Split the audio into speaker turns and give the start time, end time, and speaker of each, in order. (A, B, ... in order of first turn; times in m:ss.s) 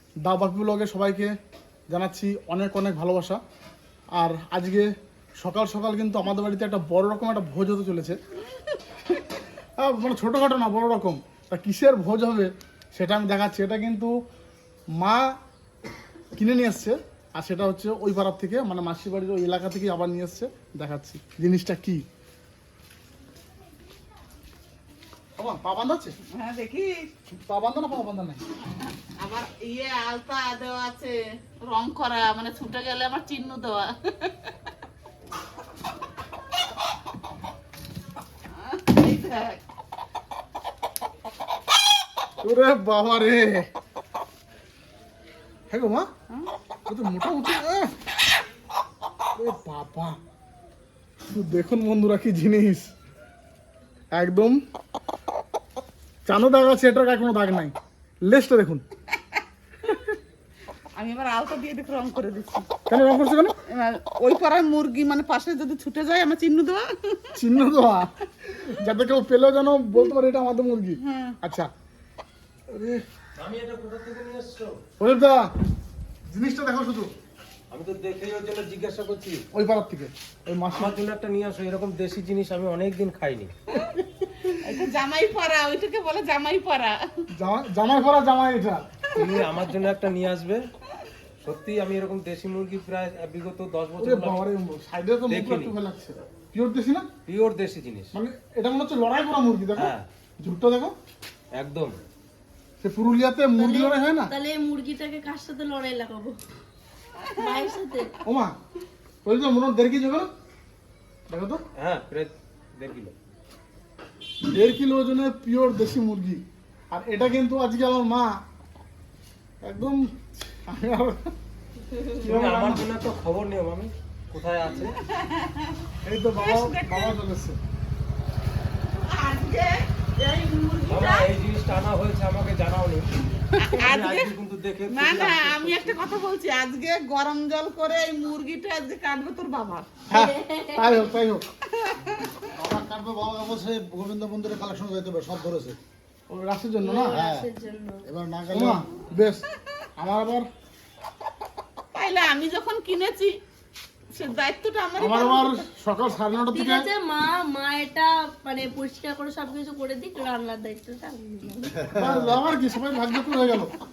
0:00.2-0:01.3 A
0:01.9-0:03.4 A
0:04.2-0:08.2 A
0:09.8-0:14.1 A
0:15.0-0:15.3 A
0:16.3-0:22.0 A
0:25.4-0:26.1 A
0:26.3-0:27.1 B
0:27.4-0:28.4 A
0:29.2-0:34.5 B
0:38.5-0:39.6 B
0:42.4-0:43.7 A
0:45.7-0:46.1 A
0:46.9-0:47.9 A
0:49.4-0:50.2 A
0:51.3-0:52.9 A
0:54.1-0:54.6 A
0:56.2-0:57.7 A
0:58.2-0:58.8 A
1:01.0-1:02.7 B
1:02.9-1:03.5 A
1:03.7-1:07.3 B
1:07.3-1:11.7 A
1:11.0-1:11.4 B
1:12.7-1:13.0 A
1:13.4-1:14.8 C
1:15.0-1:15.5 A
1:16.3-1:17.1 A
1:17.7-1:19.4 C
1:19.5-1:21.0 A
1:20.8-1:23.5 C
1:24.5-1:27.0 B
1:27.3-1:29.0 A
1:29.2-1:30.6 C
1:31.4-1:34.4 C
1:34.0-1:37.1 A
1:35.3-1:35.7 C
1:37.2-1:38.1 C
1:38.1-1:40.9 A
1:39.8-1:40.0 C
1:41.5-1:42.0 C
1:42.8-1:44.3 A
1:43.6-1:46.4 D
1:47.2-1:47.6 B
1:47.4-1:48.1 D
1:48.2-1:48.5 A
1:49.2-1:50.3 A
1:51.3-1:51.6 A
1:51.8-1:53.1 C
1:54.4-1:58.3 A
1:59.6-2:01.3 A
2:01.9-2:02.2 D
2:02.1-2:02.9 A
2:02.3-2:05.0 C
2:05.2-2:05.8 B
2:06.0-2:07.6 A
2:06.4-2:07.1 B
2:08.9-2:11.3 B
2:10.9-2:13.1 C
2:13.6-2:14.3 B
2:13.8-2:16.0 C
2:14.9-2:19.9 B
2:20.1-2:21.4 A
2:20.1-2:21.1 D
2:21.7-2:22.4 B
2:22.5-2:25.8 E
2:26.3-2:27.2 A
2:26.8-2:28.0 D
2:27.1-2:27.5 E
2:28.0-2:28.8 E
2:28.5-2:30.5 A
2:31.9-2:33.4 B
2:34.1-2:35.6 B
2:35.0-2:36.9 A
2:36.5-2:41.8 D
2:41.8-2:42.4 E
2:41.9-2:43.7 A